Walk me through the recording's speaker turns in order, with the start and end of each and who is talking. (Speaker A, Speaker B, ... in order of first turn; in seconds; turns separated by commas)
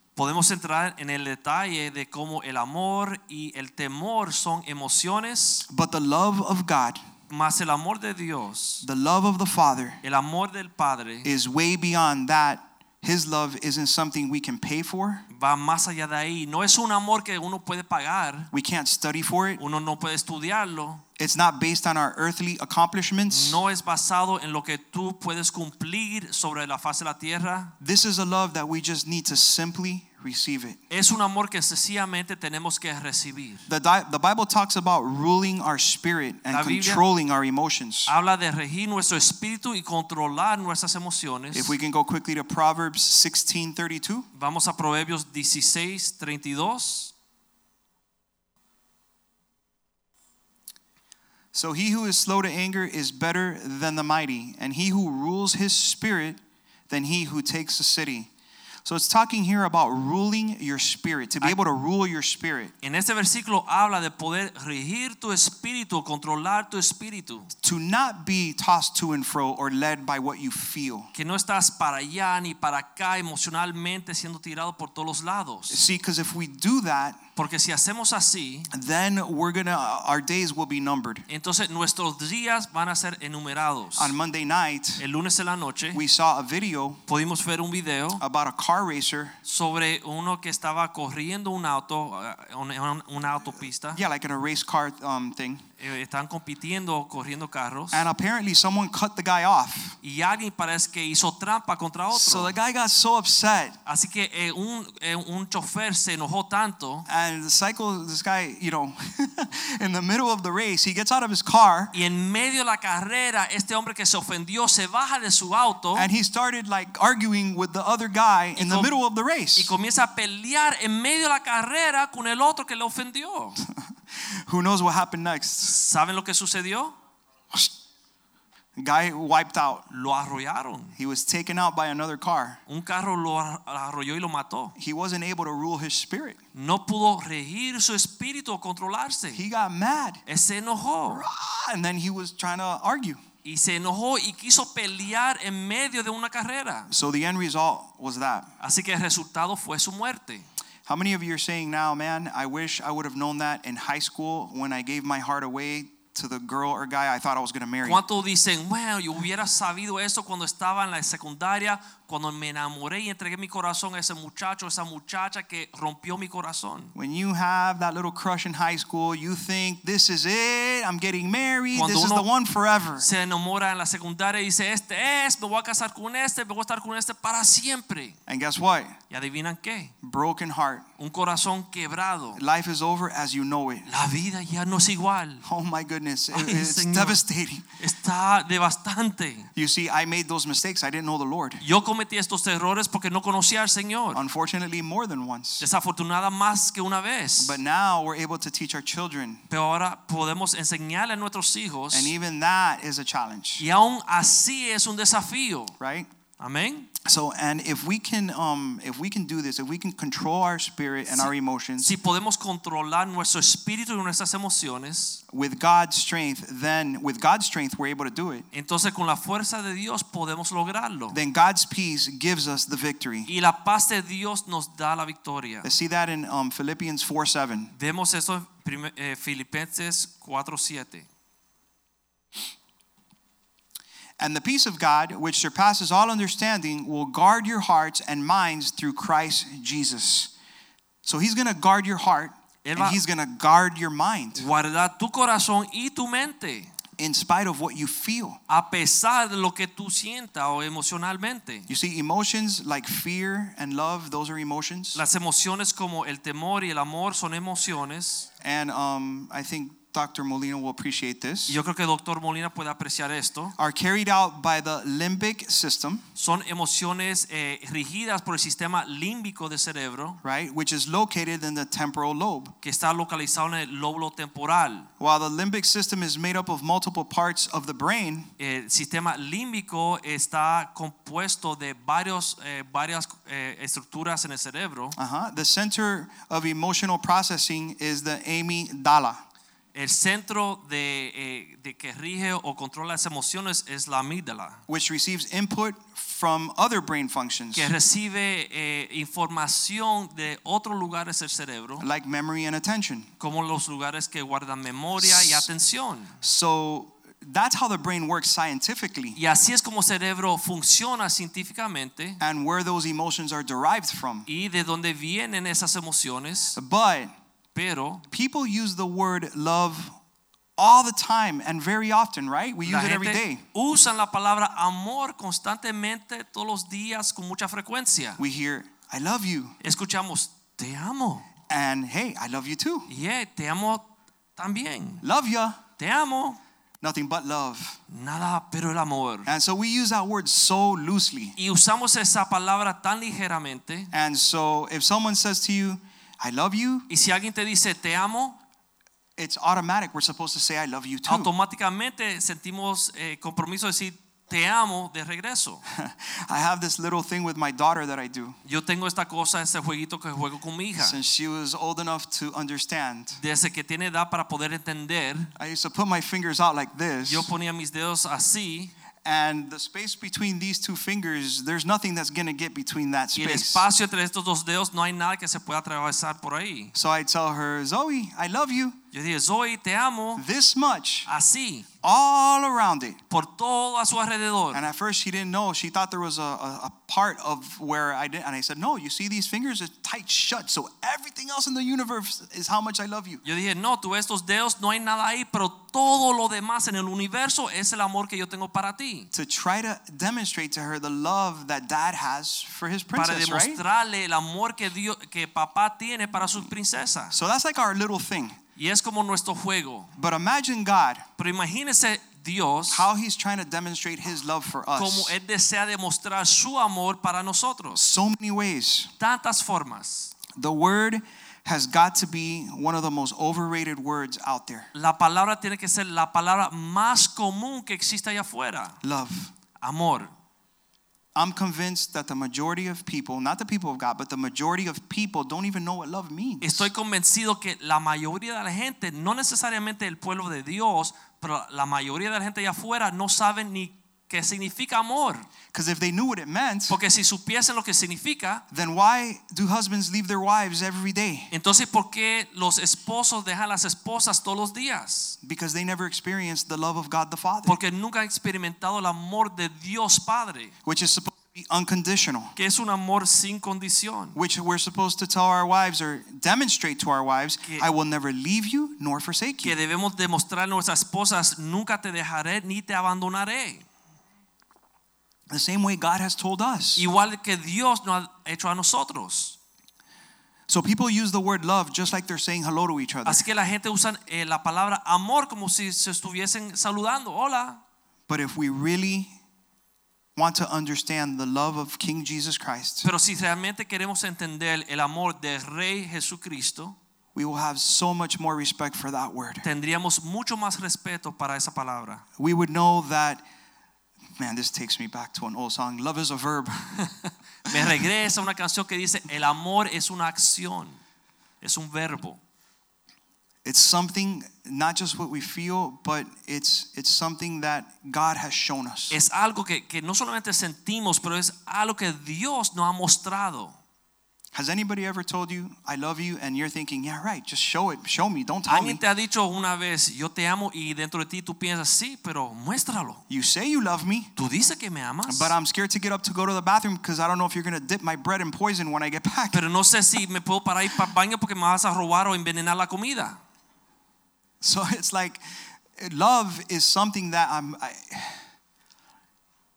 Speaker A: 0.2-5.7, Speaker B: 5.7-7.0, Speaker A: 7.3-8.8, Speaker B: 8.8-10.0, Speaker A: 10.0-11.3, Speaker B: 11.2-15.3, Speaker A: 15.3-18.5, Speaker B: 18.5-19.6, Speaker A: 19.6-21.0, Speaker B: 21.2-23.6, Speaker A: 23.3-27.8, Speaker B: 27.8-30.8, Speaker A: 30.9-33.7, Speaker B: 33.7-38.1, Speaker A: 36.5-37.0, Speaker A: 38.1-41.7, Speaker B: 41.5-44.3, Speaker A: 44.4-47.1, Speaker B: 51.5-58.3, Speaker B: 58.9-62.7, Speaker A: 62.8-67.5, Speaker B: 67.6-71.1, Speaker A: 71.1-75.8, Speaker B: 75.7-77.2, Speaker A: 77.4-78.7, Speaker B: 78.7-81.2, Speaker A: 81.3-84.1, Speaker B: 84.0-85.0, Speaker A: 85.0-86.0, Speaker B: 85.9-87.0, Speaker A: 87.1-88.2, Speaker B: 88.2-89.4, Speaker A: 89.5-94.0, Speaker B: 94.0-95.6, Speaker A: 95.8-98.1, Speaker B: 97.9-100.0, Speaker A: 100.0-102.5, Speaker B: 102.1-103.8, Speaker A: 103.9-107.1, Speaker B: 107.1-112.0, Speaker A: 111.9-116.1, Speaker B: 116.0-119.8, Speaker A: 118.6-118.9, Speaker A: 119.5-123.7, Speaker B: 124.3-125.7, Speaker A: 125.6-127.0, Speaker B: 128.8-129.9, Speaker A: 129.9-131.0, Speaker B: 131.0-132.6, Speaker A: 132.7-134.8, Speaker B: 134.8-136.4, Speaker A: 136.6-139.4, Speaker B: 139.3-140.2, Speaker A: 140.3-141.3, Speaker B: 141.1-143.2, Speaker A: 143.4-146.9, Speaker B: 146.9-148.5, Speaker A: 148.6-150.5, Speaker B: 150.9-158.0, Speaker A: 157.8-166.9, Speaker B: 166.9-173.1, Speaker A: 171.7-172.3, Speaker A: 173.0-178.2, Speaker B: 178.3-179.0, Speaker A: 179.1-179.9, Speaker B: 180.0-180.9, Speaker A: 181.0-182.4, Speaker B: 182.4-183.9, Speaker A: 183.9-185.4, Speaker B: 185.4-187.7, Speaker A: 186.3-187.2, Speaker A: 187.8-189.5, Speaker B: 189.6-191.6, Speaker A: 191.6-194.2, Speaker B: 194.1-195.7, Speaker A: 195.6-197.6, Speaker B: 197.4-199.4, Speaker A: 199.5-202.1, Speaker B: 201.9-203.7, Speaker A: 203.6-205.8, Speaker B: 205.8-206.1, Speaker A: 206.4-206.9, Speaker B: 207.0-211.9, Speaker A: 211.1-215.2, Speaker B: 215.3-218.5, Speaker A: 218.5-221.2, Speaker B: 221.1-223.3, Speaker A: 223.3-225.7, Speaker B: 225.6-227.7, Speaker A: 227.8-231.1, Speaker B: 234.2-240.3, Speaker B: 241.0-244.5, Speaker A: 242.6-243.0, Speaker A: 244.4-246.7, Speaker B: 247.0-248.4, Speaker A: 248.5-251.7, Speaker B: 251.7-255.0, Speaker A: 254.9-258.3, Speaker B: 258.4-261.6, Speaker A: 261.5-263.6, Speaker B: 263.6-266.0, Speaker A: 266.2-270.2, Speaker B: 270.2-272.5, Speaker A: 272.6-274.9, Speaker B: 275.0-278.3, Speaker A: 278.4-285.0, Speaker B: 285.0-289.2, Speaker A: 289.8-294.6, Speaker B: 294.7-297.7, Speaker A: 297.5-301.9, Speaker B: 301.8-303.1, Speaker A: 303.2-306.1, Speaker B: 305.0-305.5, Speaker B: 306.2-309.2, Speaker A: 309.2-312.2, Speaker B: 312.2-314.3, Speaker A: 314.3-316.6, Speaker B: 316.6-317.1, Speaker A: 317.6-318.1, Speaker B: 318.1-320.0, Speaker B: 320.6-323.4, Speaker A: 322.6-328.2, Speaker B: 328.2-329.6, Speaker A: 329.6-331.3, Speaker B: 331.5-332.9, Speaker A: 332.9-335.1, Speaker B: 335.0-335.6, Speaker A: 335.8-336.4, Speaker B: 336.8-337.8, Speaker A: 337.9-339.3, Speaker B: 339.3-341.4, Speaker A: 341.4-343.9, Speaker B: 343.9-346.9, Speaker A: 346.9-348.4, Speaker B: 349.2-351.3, Speaker A: 351.1-355.6, Speaker B: 355.7-358.4, Speaker A: 358.4-361.0, Speaker B: 360.8-363.2, Speaker A: 363.2-365.3, Speaker B: 365.4-367.3, Speaker A: 367.1-368.7, Speaker B: 369.0-373.7, Speaker A: 373.1-376.7, Speaker B: 376.7-378.8, Speaker A: 378.9-380.2, Speaker B: 380.2-381.1, Speaker A: 381.1-381.7, Speaker B: 381.8-383.0, Speaker A: 383.1-384.6, Speaker B: 384.5-393.2, Speaker A: 393.2-399.1, Speaker B: 399.1-403.6, Speaker A: 402.9-407.1, Speaker B: 407.1-408.4, Speaker A: 408.6-409.9, Speaker B: 410.0-411.1, Speaker A: 411.2-412.9, Speaker B: 412.7-415.1, Speaker A: 414.8-417.9, Speaker B: 417.8-418.9, Speaker A: 419.0-420.1, Speaker B: 420.4-424.7, Speaker A: 424.7-428.8, Speaker B: 428.8-429.3, Speaker A: 429.6-430.1, Speaker B: 431.1-436.7, Speaker A: 436.4-445.3, Speaker B: 445.5-446.8, Speaker A: 446.7-448.4, Speaker B: 448.5-451.3, Speaker A: 451.3-455.2, Speaker B: 455.2-457.6, Speaker A: 457.5-460.5, Speaker B: 460.6-462.3, Speaker A: 462.4-464.2, Speaker B: 464.1-469.6, Speaker A: 469.4-473.7, Speaker B: 475.3-476.9, Speaker A: 476.8-479.4, Speaker B: 480.5-483.3, Speaker A: 483.1-487.6, Speaker B: 488.1-489.1, Speaker B: 490.2-492.9, Speaker A: 492.8-496.8, Speaker B: 497.1-499.4, Speaker A: 499.4-502.0, Speaker B: 502.2-503.2, Speaker B: 504.2-506.7, Speaker A: 507.0-510.8, Speaker A: 511.4-512.2, Speaker B: 513.5-519.0, Speaker A: 518.9-523.6, Speaker B: 524.3-528.8, Speaker A: 528.5-533.0, Speaker B: 533.1-534.1, Speaker A: 534.2-535.3, Speaker B: 535.1-539.4, Speaker A: 539.3-543.2, Speaker B: 544.4-548.2